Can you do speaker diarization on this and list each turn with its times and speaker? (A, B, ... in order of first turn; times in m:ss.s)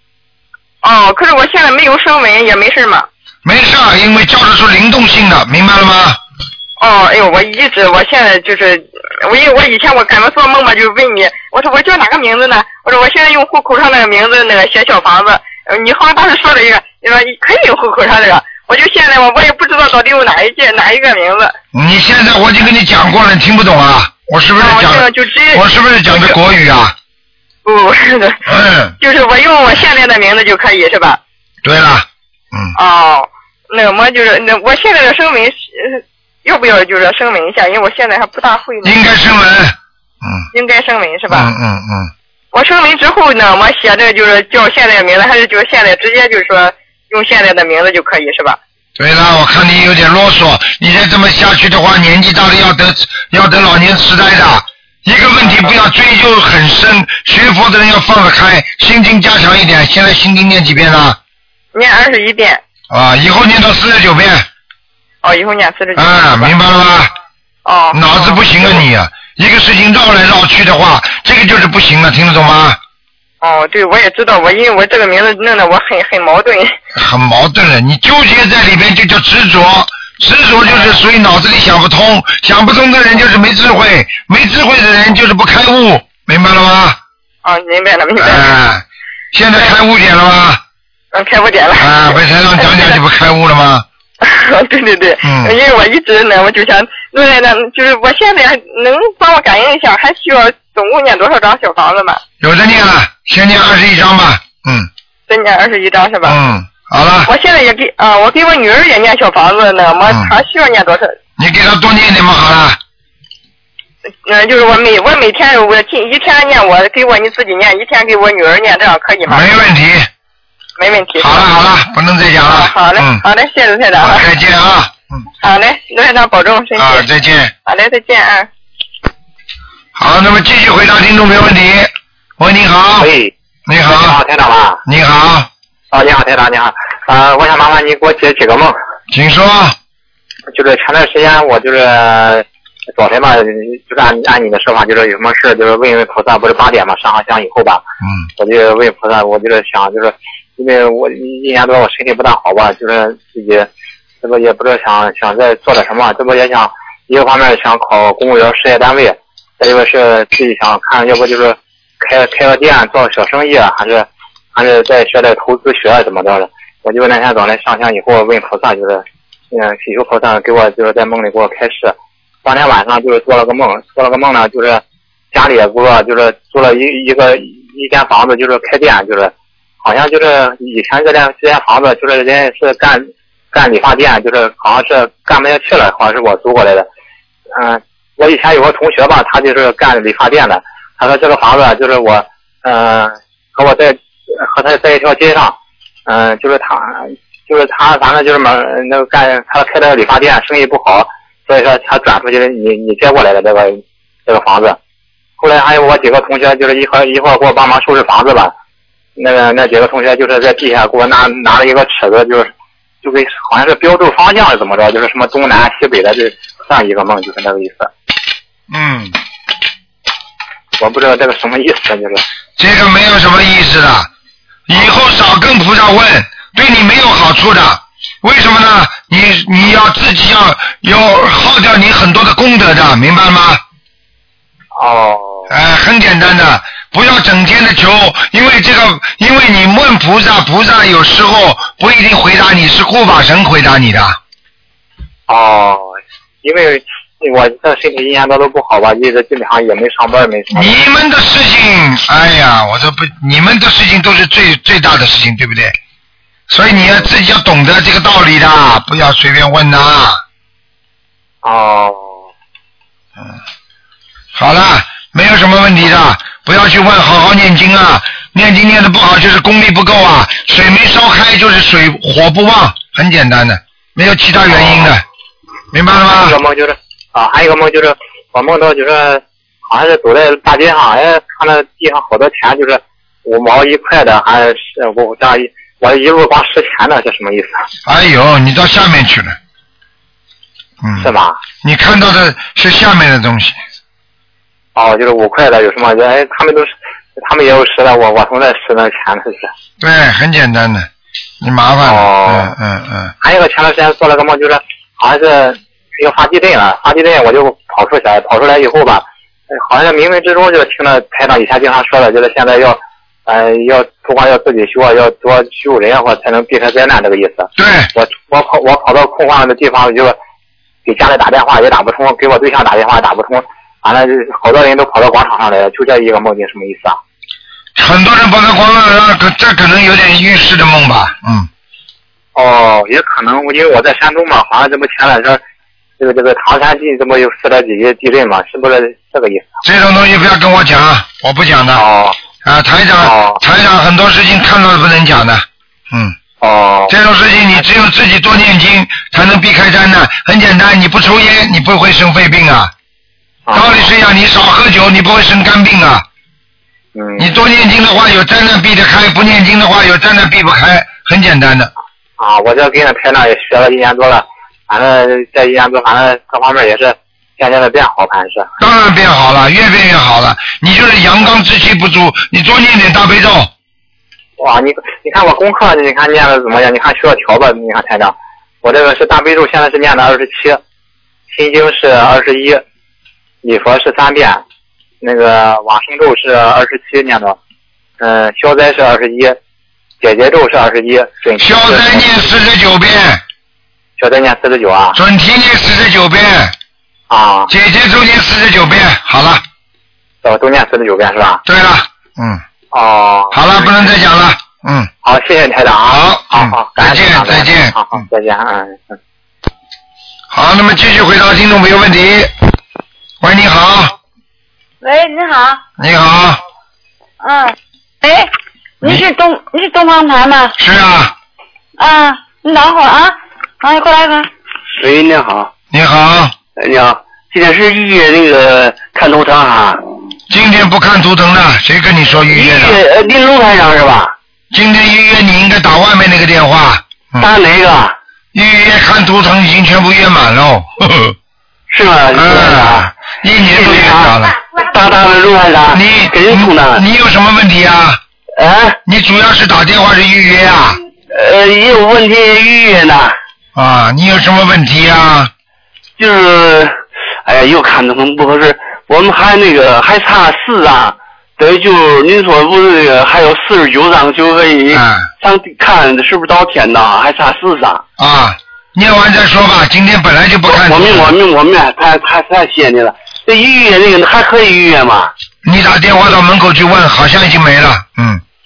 0:00.8-0:03.1 A
0:03.4-0:06.2 B
0:06.8-0:21.5 A
0:21.7-0:26.9 B
0:24.6-0:26.4 A
0:27.6-0:28.4 A
0:28.4-0:29.0 B
0:29.0-0:31.2 A
0:31.6-0:32.7 B
0:32.7-0:39.0 A
0:38.8-0:40.5 B
0:40.5-0:41.5 A
0:41.3-0:42.1 B
0:42.5-0:48.6 A
0:49.0-1:01.2 B
0:55.4-0:55.7 A
1:01.7-1:02.6 A
1:02.9-1:04.5 B
1:05.2-1:06.5 A
1:06.0-1:07.1 B
1:07.6-1:08.8 A
1:07.9-1:12.8 B
1:13.4-1:16.8 A
1:16.9-1:27.0 B
1:20.6-1:21.0 A
1:27.4-1:28.5 A
1:28.2-1:30.6 B
1:31.1-1:33.0 A
1:31.8-1:33.8 B
1:34.2-1:42.2 A
1:35.2-1:35.5 B
1:42.4-1:44.9 B
1:45.3-1:46.4 A
1:46.2-1:47.3 B
1:47.2-1:51.2 A
1:50.1-1:50.3 B
1:51.4-1:52.8 B
1:54.2-1:59.5 A
1:59.3-2:00.1 B
2:00.8-2:01.5 A
2:01.2-2:03.2 B
2:02.4-2:04.3 A
2:04.0-2:05.2 B
2:05.4-2:07.1 A
2:06.8-2:07.5 B
2:07.6-2:08.5 A
2:10.0-2:13.1 B
2:13.0-2:13.3 C
2:13.7-2:14.2 B
2:13.9-2:14.8 C
2:14.8-2:15.5 B
2:15.9-2:18.8 C
2:19.1-2:19.8 B
2:20.5-2:22.4 C
2:23.0-2:27.8 C
2:28.0-2:28.3 B
2:28.4-2:33.7 C
2:34.2-3:06.9 C
3:07.5-3:24.8 C
3:25.4-3:28.5 C
3:29.2-3:32.5 C
3:33.0-3:37.9 C
3:38.7-3:39.1 B
3:40.8-3:42.2 C
3:42.6-3:44.1 B
3:44.7-3:53.6 B
3:54.7-3:55.5 C
3:55.5-4:04.2 B
4:05.3-4:10.8 C
4:10.5-4:15.8 B
4:16.5-4:20.2 B
4:21.4-4:22.2 C
4:24.3-4:35.0 B
4:34.5-4:34.9 C
4:35.7-4:36.4 B
4:36.1-4:47.6 C
4:47.8-4:49.4 B
4:50.8-4:51.1 B
4:51.0-4:51.4 C
4:51.6-4:53.6 B
4:54.8-4:59.5 C
4:59.8-5:00.9 B
5:01.4-5:03.1 B
5:01.8-5:02.5 C
5:03.2-5:20.2 C
5:17.6-5:17.9 B
5:20.8-5:27.0 C
5:27.8-5:31.5 B
5:32.3-5:35.4 C
5:36.0-5:39.5 C
5:39.6-5:41.8 B
5:41.7-5:42.2 C
5:42.4-5:46.2 B
5:43.0-5:43.4 C
5:46.4-5:46.9 C
5:46.9-5:52.7 B
5:53.5-5:53.9 C
5:53.5-5:56.0 B
5:56.9-5:57.3 C
5:57.2-6:01.7 B
6:02.2-6:08.5 C
6:08.6-6:13.5 B
6:14.4-6:20.6 C
6:21.3-6:22.6 C
6:23.4-6:24.4 C
6:25.0-6:27.4 C
6:28.0-6:29.4 C
6:30.0-6:32.1 C
6:31.4-6:33.2 B
6:34.0-6:35.0 C
6:34.9-6:36.5 B
6:37.1-6:37.5 C
6:37.5-6:39.4 B
6:40.2-6:41.4 C
6:41.4-6:42.4 B
6:42.7-6:43.9 C
6:43.3-6:44.9 B
6:45.0-6:49.0 C
6:45.9-6:48.0 B
6:50.3-6:52.3 B
6:53.2-6:54.0 B
6:54.8-6:55.6 D
6:55.8-6:56.4 B
6:58.8-7:00.5 D
7:00.6-7:01.1 B
7:01.8-7:03.1 D
7:03.6-7:04.2 D
7:04.7-7:05.5 E
7:05.7-7:06.3 B
7:06.6-7:09.8 E
7:10.3-7:12.8 B
7:12.3-7:14.1 E
7:14.5-7:17.3 B
7:17.2-7:17.9 E
7:18.3-7:21.2 B
7:21.7-7:22.9 E
7:22.1-7:24.4 B
7:23.4-7:26.8 E
7:25.7-7:28.0 B
7:28.4-7:28.8 E
7:28.8-7:30.8 B
7:31.1-7:33.1 E
7:33.5-7:35.3 B
7:36.0-7:36.7 E
7:37.2-7:47.8 E
7:44.7-7:45.1 B
7:48.0-7:51.1 B
7:50.5-7:55.1 E
7:55.4-7:58.2 B